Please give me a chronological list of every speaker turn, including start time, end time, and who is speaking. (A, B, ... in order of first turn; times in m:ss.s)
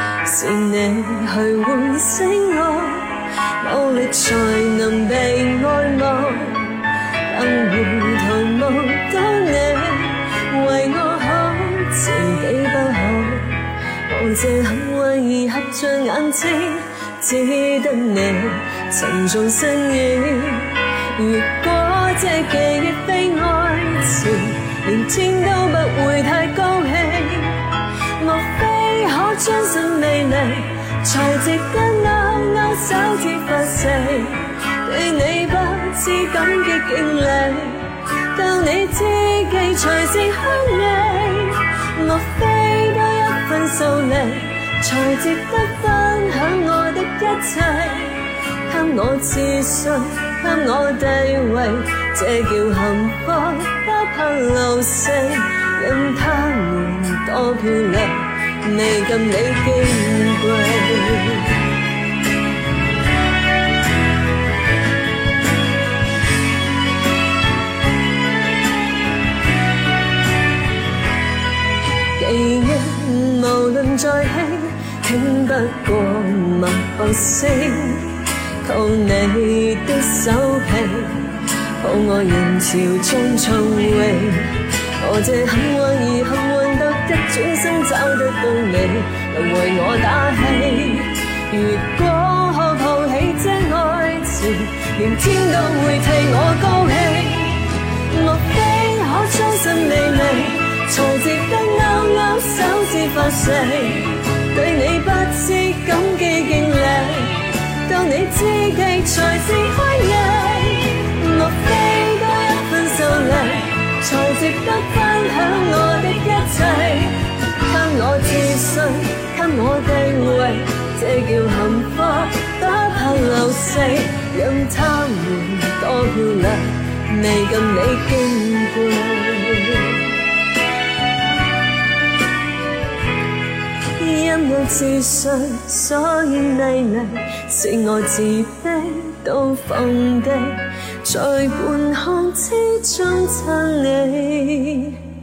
0:00.2-0:27.6 A
0:28.2-1:01.5 A
1:12.2-1:21.3 A
1:21.8-2:10.1 A
2:14.0-2:25.0 A